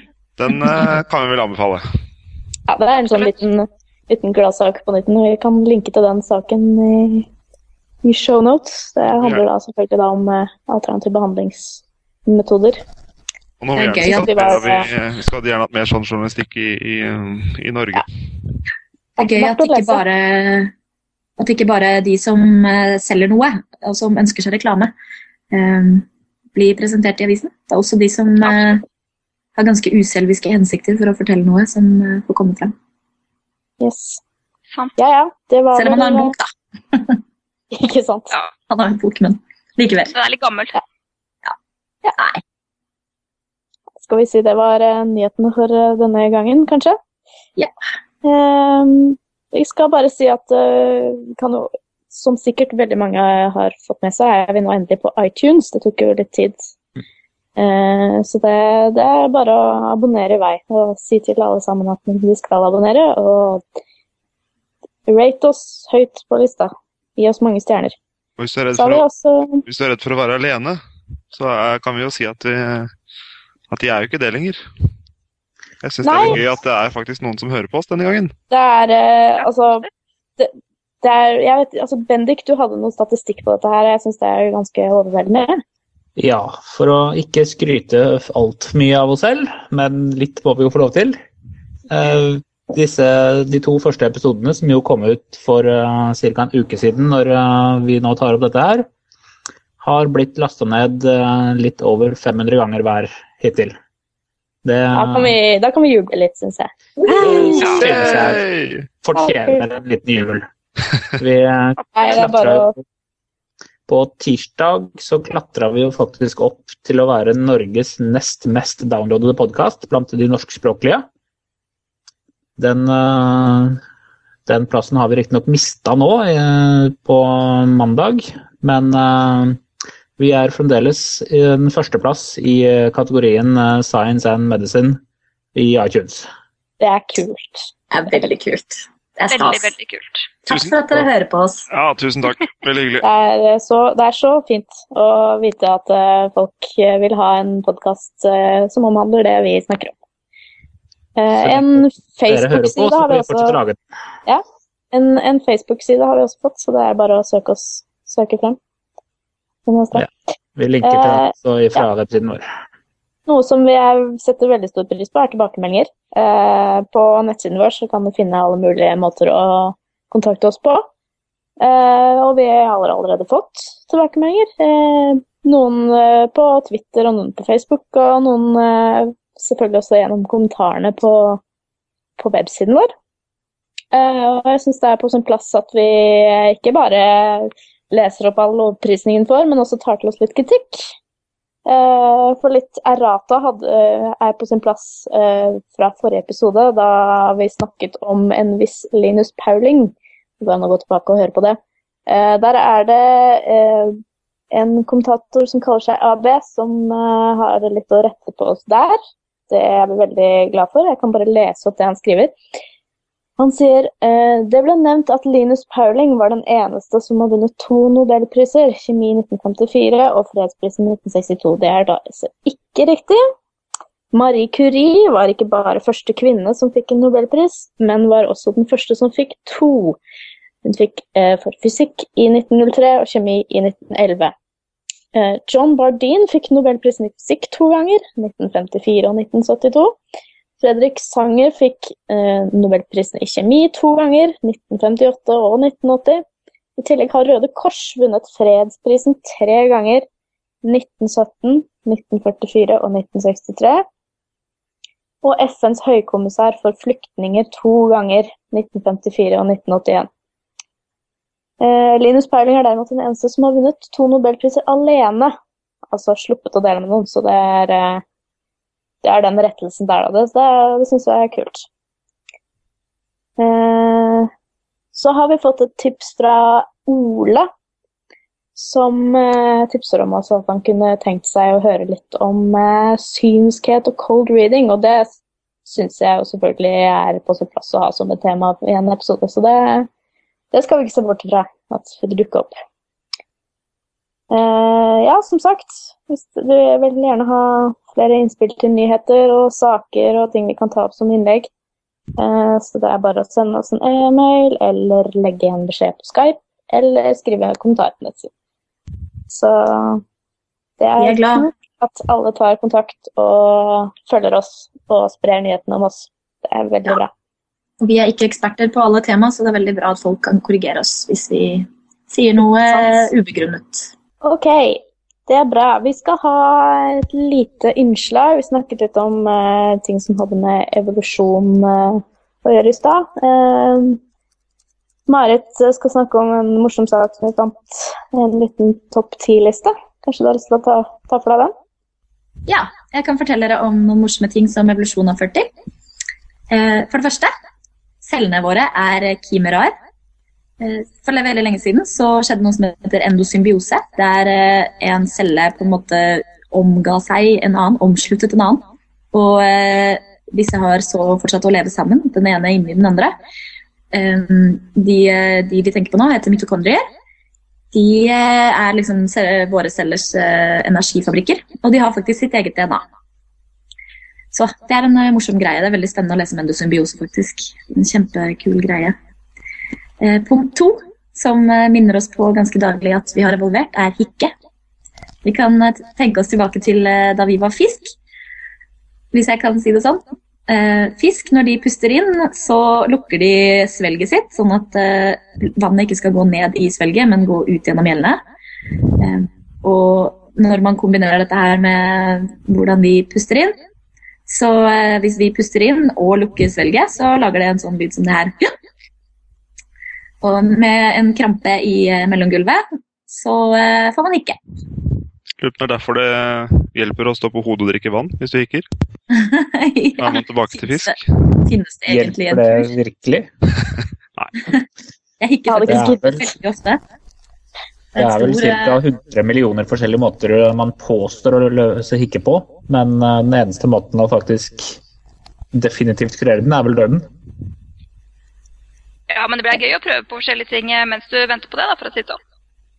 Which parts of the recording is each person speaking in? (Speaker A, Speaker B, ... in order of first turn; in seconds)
Speaker A: 0.4-1.8, 9.1-9.4, 13.6-18.1, 68.4-69.0, 69.7-70.8, 71.3-72.9, 73.7-74.6, 75.8-78.3, 107.5-108.9, 140.5-141.0, 141.7-143.1, 415.4-418.7, 420.0-421.0
Speaker B: 2.7-7.3, 8.0-12.8, 13.9-14.9, 19.2-20.0, 33.8-34.2, 35.0-36.3, 37.7-38.3, 44.0-47.0, 48.2-56.6, 57.6-63.6, 65.1-68.0, 68.8-69.6, 76.0-76.4, 78.5-79.9, 81.0-85.6, 104.9-107.9, 109.2-109.6, 111.9-112.8, 136.8-137.7, 143.0-149.9, 151.2-153.6, 154.3-158.6, 159.7-160.1, 160.8-161.8, 163.3-170.9, 171.6-181.4, 182.2-182.9, 183.9-190.9, 191.7-204.0, 204.5-212.3, 213.4-223.2, 224.1-230.0, 230.7-234.3, 235.1-240.0, 240.6-246.2, 246.8-250.1, 250.6-253.8, 255.2-260.1, 261.6-265.3, 265.9-268.0, 269.0-271.7, 273.4-274.3, 274.9-277.5, 278.6-289.9, 290.5-292.5, 294.3-301.5, 302.2-308.3, 309.3-310.0, 310.8-317.1, 322.7-323.1, 324.2-334.0, 335.1-341.5, 425.5-426.1
Speaker C: 13.8-14.4, 19.2-20.7, 21.4-24.9, 25.5-28.8, 29.6-32.7, 35.8-37.2, 38.7-40.1, 42.0-42.4, 137.9-139.7, 140.4-141.7, 311.0-311.4, 317.8-323.9, 342.5-345.5, 346.5-347.3, 348.0-349.7, 350.6-363.2, 363.9-366.8, 367.7-372.9, 374.3-378.9, 380.0-384.3, 385.2-387.9, 389.1-398.2, 399.0-403.6, 404.3-408.5, 410.2-414.4, 419.1-422.7, 425.2-426.8, 427.9-428.7
Speaker D: 40.1-40.8, 139.3-140.3, 439.1-442.2
Speaker E: 86.2-91.2, 91.9-98.9, 99.8-103.8, 104.6-105.4, 107.2-108.4, 109.0-110.5, 111.2-112.8, 113.9-121.1, 122.6-123.8, 124.5-129.6, 130.2-135.0, 135.6-136.3, 151.4-153.8, 159.9-162.4, 421.9-423.3, 425.7-426.3, 427.9-434.8, 435.5-437.1